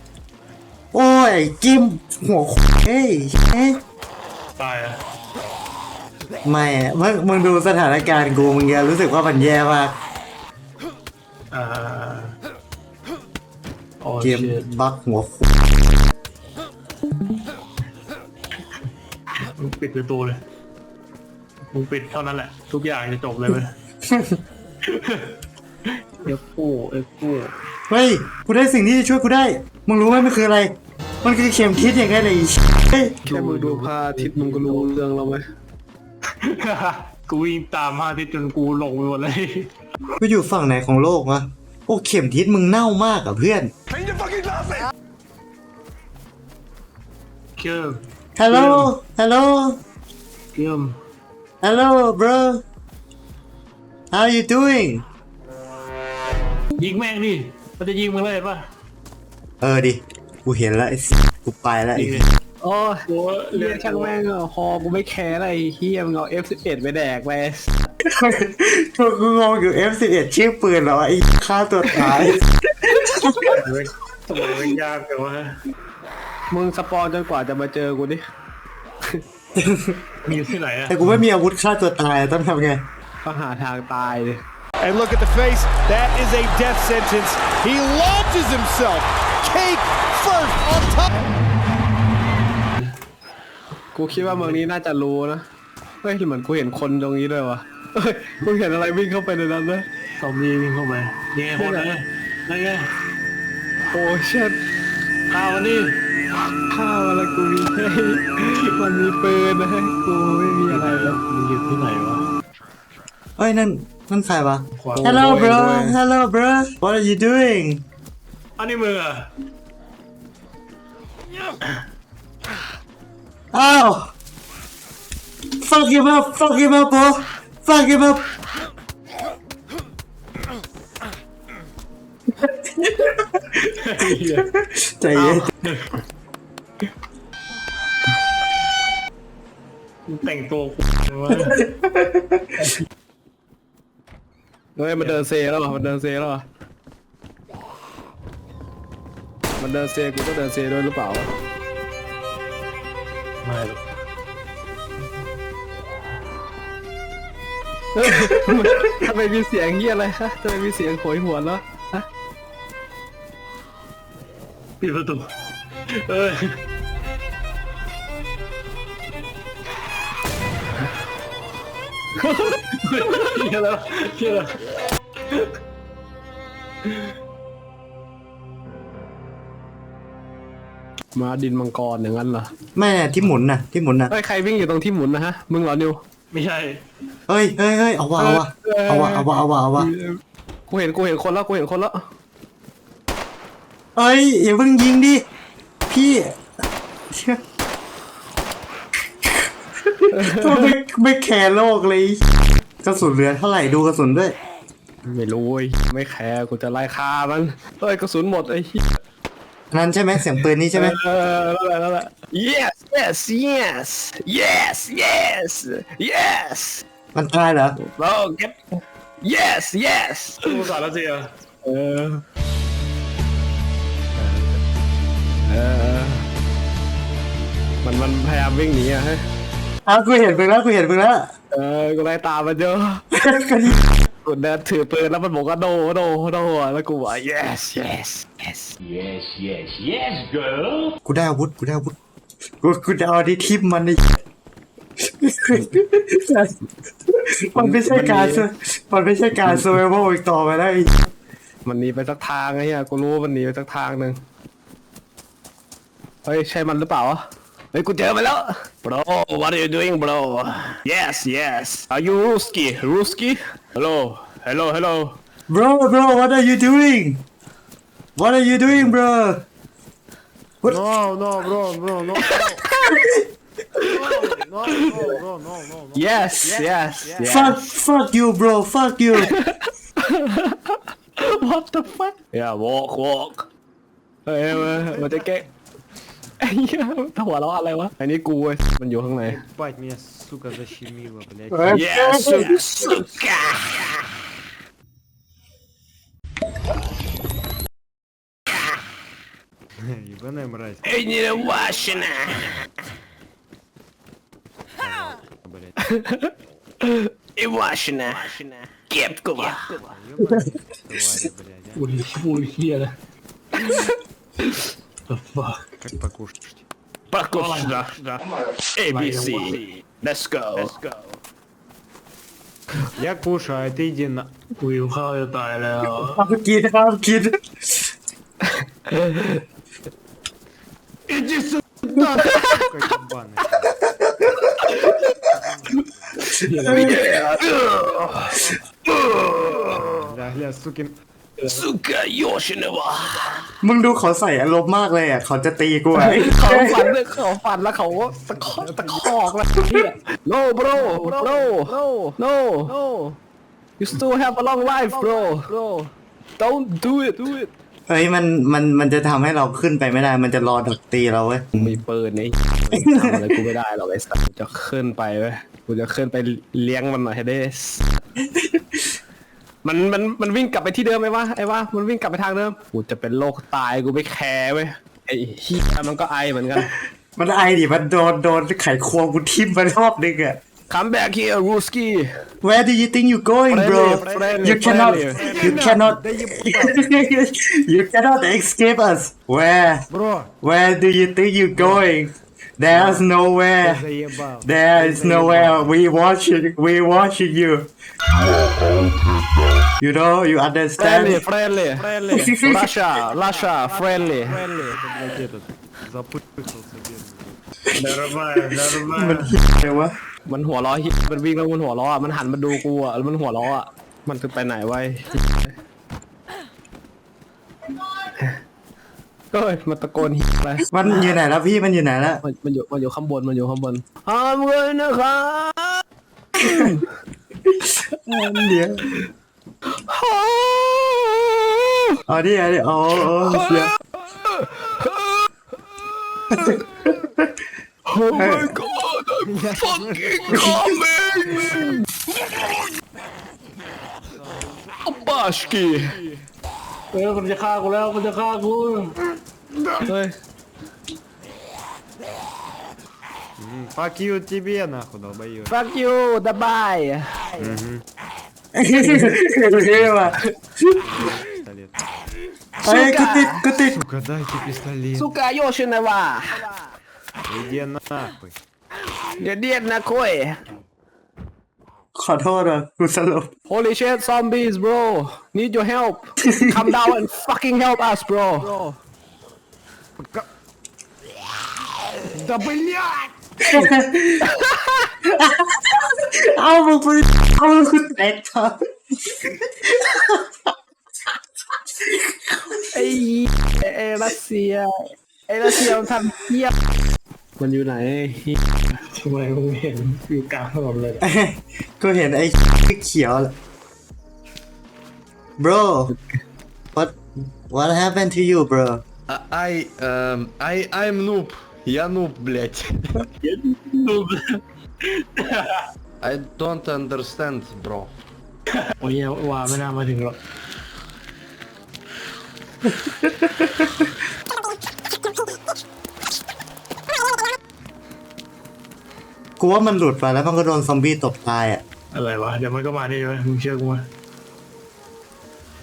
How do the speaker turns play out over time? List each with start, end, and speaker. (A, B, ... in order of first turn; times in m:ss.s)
0:00.9-0:03.8 A
0:04.6-0:05.0 B
0:06.4-0:09.9 A
0:11.5-0:12.3 B
0:14.0-0:14.6 B
0:14.2-0:15.5 A
0:19.6-0:20.4 B
0:21.7-0:23.7 B
0:24.0-0:24.4 A
0:24.9-0:25.3 B
0:26.2-0:27.5 B
0:27.9-0:33.1 A
0:33.2-0:35.0 B
0:33.3-0:35.4 C
0:36.4-0:39.7 B
0:40.2-0:43.7 A
0:47.6-0:48.0 B
0:48.4-0:49.8 A
0:48.5-0:48.9 B
0:50.5-0:50.9 B
0:51.6-0:52.6 A
0:54.1-0:55.0 A
0:56.8-0:58.6 B
0:59.6-1:02.3 A
1:02.0-1:02.3 B
1:02.6-1:07.7 C
1:03.1-1:04.1 B
1:08.0-1:13.6 A
1:13.5-1:15.6 B
1:16.5-1:18.2 C
1:19.6-1:20.2 A
1:20.2-1:21.2 B
1:20.9-1:22.8 A
1:23.2-1:24.4 C
1:33.9-1:35.4 C
1:34.1-1:34.6 B
1:36.0-1:39.9 C
1:40.2-1:42.9 B
1:41.6-1:41.9 C
1:43.9-1:44.6 C
1:45.3-1:46.0 B
1:46.7-1:51.2 C
1:50.7-1:52.2 B
1:53.4-1:57.8 A
1:54.8-1:55.1 B
1:55.0-1:56.0 C
1:58.6-1:59.3 B
2:03.5-2:04.1 A
2:05.6-2:08.2 A
2:12.4-2:13.4 A
2:13.7-2:14.5 B
2:14.2-2:15.5 A
2:15.1-2:16.0 B
2:20.1-2:21.6 B
2:21.5-2:22.5 A
2:24.8-2:26.4 C
2:29.6-2:31.3 C
2:33.4-2:33.8 B
2:37.9-2:42.0 C
2:44.8-2:45.2 B
2:45.9-2:46.6 B
2:52.2-2:52.6 C
2:52.7-2:54.6 B
3:01.1-3:02.5 C
3:02.8-3:04.1 A
3:04.1-3:06.0 C
3:06.3-3:06.8 B
3:07.3-3:09.9 A
3:08.2-3:12.0 C
3:14.0-3:15.2 A
3:15.9-3:16.4 A
3:17.1-3:17.4 A
3:19.8-3:22.2 A
3:20.2-3:20.7 C
3:22.8-3:24.4 A
3:25.1-3:28.8 C
3:29.7-3:31.0 A
3:30.7-3:36.8 C
3:37.1-3:37.8 A
3:37.8-3:38.6 C
3:39.2-3:40.5 C
3:40.4-3:41.3 B
3:41.6-3:42.2 C
3:44.2-3:44.6 C
3:45.5-3:46.2 C
3:47.8-3:49.2 C
3:49.8-3:51.3 A
3:51.5-3:53.0 C
3:53.1-3:53.8 A
3:54.2-3:58.7 C
4:01.0-4:01.9 A
4:02.6-4:04.0 A
4:05.0-4:06.5 A
4:07.1-4:11.1 A
4:07.6-4:08.5 C
4:09.4-4:09.8 C
4:11.6-4:14.2 C
4:16.2-4:25.2 C
4:25.5-4:27.2 A
4:28.2-4:29.4 A
4:30.6-4:32.8 D
4:32.2-4:33.0 C
4:33.8-4:37.5 D
4:34.8-4:35.2 C
4:35.9-4:37.6 C
4:37.2-4:39.3 A
4:39.2-4:43.5 C
4:44.2-4:45.4 C
4:44.6-4:45.4 D
4:46.4-4:49.4 C
4:49.2-4:51.8 D
4:51.5-4:52.5 A
4:51.7-4:53.8 C
4:59.9-5:02.0 D
5:00.8-5:02.5 C
5:04.8-5:05.9 D
5:06.8-5:09.8 C
5:09.4-5:12.0 D
5:11.8-5:12.9 B
5:15.1-5:15.6 B
5:15.8-5:16.6 D
5:17.1-5:18.2 C
5:17.3-5:17.8 B
5:18.8-5:21.0 C
5:18.9-5:19.6 B
5:23.0-5:24.3 D
5:24.6-5:26.3 B
5:26.1-5:27.8 A
5:28.9-5:29.4 C
5:31.8-5:33.7 D
5:35.2-5:36.2 D
5:36.4-5:38.4 C
5:36.6-5:36.9 B
5:39.0-5:39.5 C
5:39.6-5:41.0 D
5:41.4-5:43.3 C
5:43.6-5:46.9 A
5:46.0-5:53.2 C
5:48.2-5:49.0 D
5:53.8-5:57.5 C
5:57.9-6:01.8 A
6:01.5-6:07.8 C
6:02.7-6:03.4 A
6:08.2-6:08.8 A
6:09.6-6:16.7 C
6:17.2-6:20.4 A
6:20.7-6:22.1 C
6:22.4-6:29.8 A
6:23.5-6:25.2 C
6:23.9-6:27.3 D
6:29.9-6:30.3 D
6:30.4-6:33.8 A
6:31.6-6:31.9 D
6:32.7-6:35.8 D
6:34.4-6:37.7 A
6:39.8-6:41.2 A
6:40.8-6:44.4 C
6:41.8-6:42.4 D
6:42.1-6:42.7 A
6:43.1-6:47.4 D
6:47.8-6:49.4 B
6:48.9-6:49.9 A
6:50.2-6:55.5 C
6:59.3-7:00.7 C
7:00.7-7:02.2 A
7:02.2-7:05.8 C
7:06.4-7:06.8 A
7:07.4-7:08.9 A
7:09.7-7:11.8 C
7:12.1-7:13.7 A
7:14.2-7:15.1 C
7:16.3-7:16.6 C
7:17.9-7:22.5 C
7:18.1-7:18.5 A
7:19.3-7:20.7 D
7:21.3-7:21.8 D
7:24.8-7:25.9 C
7:26.9-7:28.9 B
7:29.8-7:30.1 C
7:33.4-7:35.6 D
7:35.5-7:37.5 C
7:37.4-7:37.8 D
7:38.6-7:40.2 A
7:39.7-7:40.2 D
7:40.7-7:41.8 D
7:42.6-7:43.4 C
7:42.6-7:43.8 A
7:43.7-7:45.1 D
7:44.9-7:46.5 C
7:47.3-7:48.4 D
7:49.2-7:50.4 C
7:51.9-7:53.3 A
7:53.5-7:58.6 C
8:02.2-8:03.1 D
8:03.4-8:04.4 A
8:04.9-8:10.2 A
8:11.9-8:12.5 A
8:12.7-8:16.5 C
8:17.4-8:18.4 C
8:18.8-8:21.0 B
8:21.0-8:23.3 A
8:25.4-8:25.9 A
8:26.7-8:28.8 A
8:29.1-8:33.0 E
8:33.2-8:35.6 B
8:36.0-8:37.9 E
8:38.8-8:40.2 B
8:42.8-8:43.5 A
8:49.4-8:51.6 A
8:51.9-8:53.8 B